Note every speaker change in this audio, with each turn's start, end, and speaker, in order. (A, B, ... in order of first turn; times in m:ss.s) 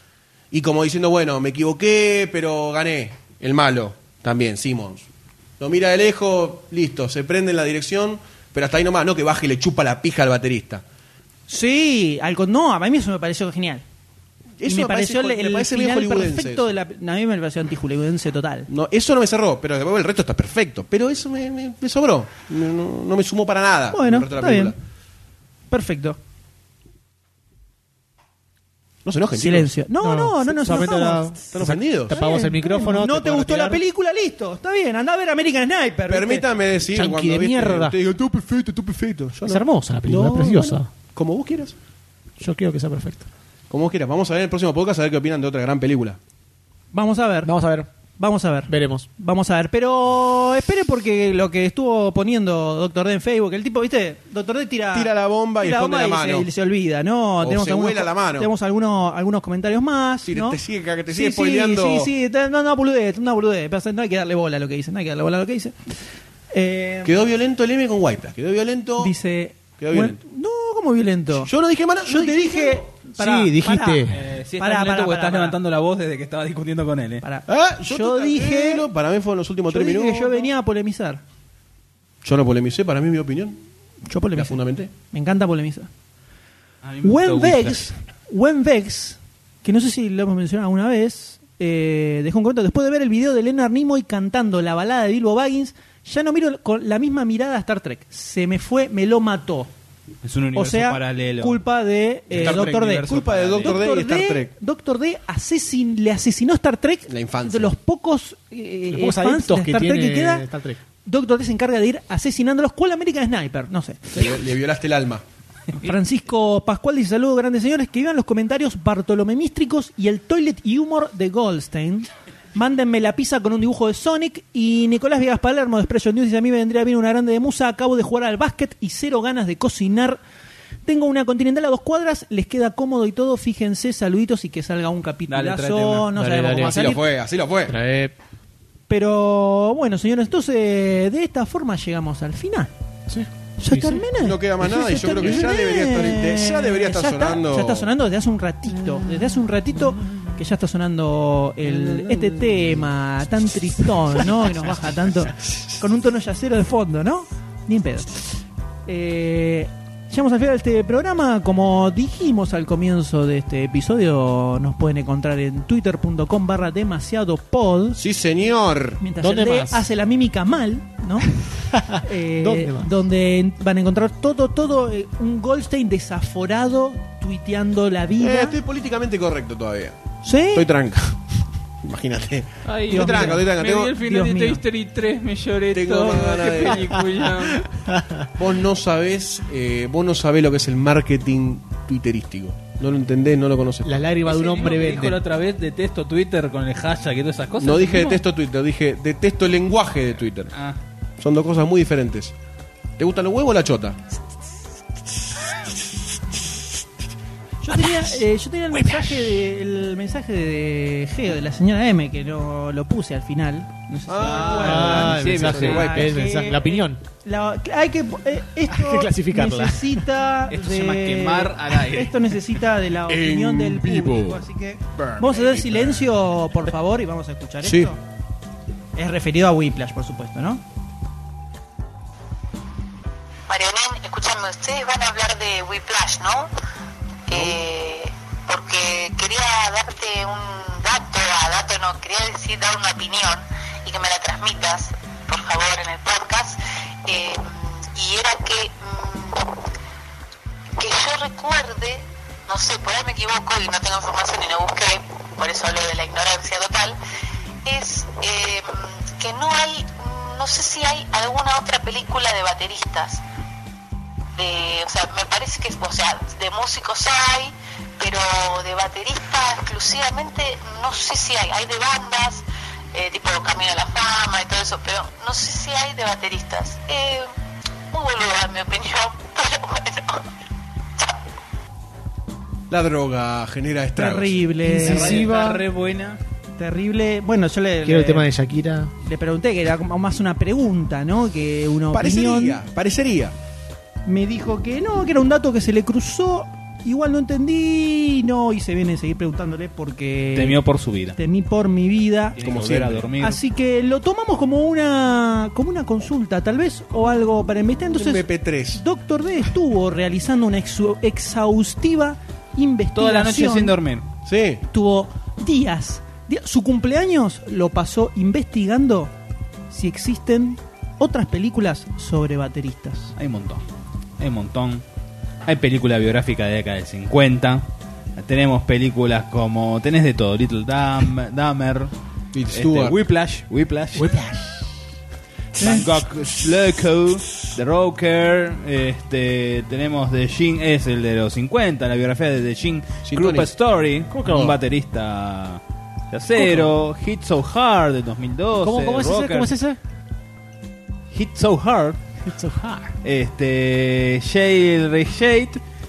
0:00.5-0:05.0 A
0:05.6-0:10.8 A
0:11.5-0:13.8 B
0:14.6-0:16.7 A
0:14.6-0:18.7 B
0:18.7-0:24.8 A
0:23.9-0:24.7 B
0:25.7-0:26.2 B
0:29.0-0:29.7 A
0:29.4-0:31.4 B
0:30.0-0:33.8 C
0:31.5-0:32.2 A
0:32.1-0:36.5 B
0:36.1-0:41.7 A
0:36.9-0:38.0 C
0:39.4-0:40.9 C
0:42.4-0:43.3 C
0:43.7-0:46.2 A
0:46.9-0:47.5 B
0:47.4-0:47.9 C
0:48.2-1:05.8 B
0:48.7-0:49.1 C
0:54.9-0:56.5 A
0:57.4-0:58.5 A
1:00.2-1:02.1 A
1:06.5-1:07.1 B
1:07.0-1:09.1 A
1:09.0-1:11.5 B
1:09.8-1:10.2 A
1:11.4-1:12.8 A
1:12.0-1:14.1 B
1:13.2-1:14.2 C
1:14.1-1:17.2 D
1:14.6-1:15.6 B
1:17.2-1:18.9 B
1:17.5-1:20.5 A
1:19.7-1:21.2 B
1:22.2-1:23.6 A
1:24.1-1:25.9 B
1:24.3-1:24.9 A
1:26.8-1:27.9 D
1:27.0-1:39.7 B
1:40.2-1:41.6 D
1:40.5-1:50.5 B
1:42.3-1:43.8 D
1:42.3-1:44.5 A
1:47.1-1:47.7 A
1:48.9-1:50.8 C
1:51.0-1:54.2 B
1:54.1-1:55.2 A
1:55.8-2:10.2 B
2:10.8-2:17.0 B
2:15.3-2:16.1 D
2:16.1-2:17.0 C
2:16.5-2:17.8 A
2:17.6-2:18.1 C
2:18.9-2:22.7 B
2:23.1-2:24.0 C
2:23.6-2:38.2 B
2:24.2-2:27.9 A
2:31.6-2:32.8 A
2:34.2-2:34.7 A
2:38.8-2:48.0 B
2:48.0-2:49.0 A
2:49.0-2:51.3 B
2:49.2-2:49.9 C
2:51.7-2:52.9 C
2:51.9-2:58.6 B
2:58.2-3:00.0 A
3:00.2-3:00.7 B
3:00.5-3:01.2 A
3:01.8-3:03.9 A
3:02.6-3:07.7 D
3:02.9-3:04.6 B
3:05.7-3:06.9 A
3:07.9-3:08.3 C
3:08.4-3:14.0 A
3:13.8-3:15.2 C
3:14.2-3:18.2 D
3:17.6-3:20.5 A
3:20.5-3:20.8 D
3:21.2-3:22.3 A
3:23.0-3:24.0 A
3:27.6-3:48.0 B
3:34.1-3:36.2 A
3:34.3-3:35.8 D
3:34.4-3:37.0 C
3:38.7-3:40.0 C
3:40.5-3:42.3 D
3:43.1-3:44.4 A
3:45.0-3:46.0 D
3:47.6-3:47.9 A
3:49.0-3:50.6 B
3:53.5-3:56.5 E
3:57.3-4:09.4 E
4:10.8-4:17.0 E
4:17.6-4:23.2 E
4:24.4-4:37.3 E
4:37.9-4:40.2 E
4:42.7-4:44.4 A
4:44.0-4:45.3 B
4:44.6-4:45.6 C
4:44.7-4:46.2 D
4:46.6-4:48.3 B
4:47.8-4:48.9 C
4:49.0-4:52.6 B
4:51.9-4:53.3 A
4:54.0-5:00.6 B
5:00.3-5:01.2 D
5:01.1-5:02.4 B
5:02.4-5:03.4 D
5:02.4-5:03.1 A
5:03.2-5:13.7 B
5:07.9-5:08.8 A
5:12.9-5:14.0 D
5:14.2-5:14.6 A
5:14.7-5:19.1 B
5:19.7-5:23.1 B
5:23.2-5:23.6 D
5:24.2-5:24.8 D
5:25.4-5:27.6 D
5:28.2-5:31.9 D
5:32.3-5:33.0 A
5:32.5-5:34.2 D
5:33.9-5:34.7 C
5:35.6-5:35.8 B
5:35.6-5:49.5 D
5:43.0-5:43.5 A
5:44.1-5:44.6 C
5:46.3-5:46.8 C
5:48.6-5:49.8 C
5:51.1-5:52.0 D
5:52.2-5:52.9 C
5:53.0-5:55.6 D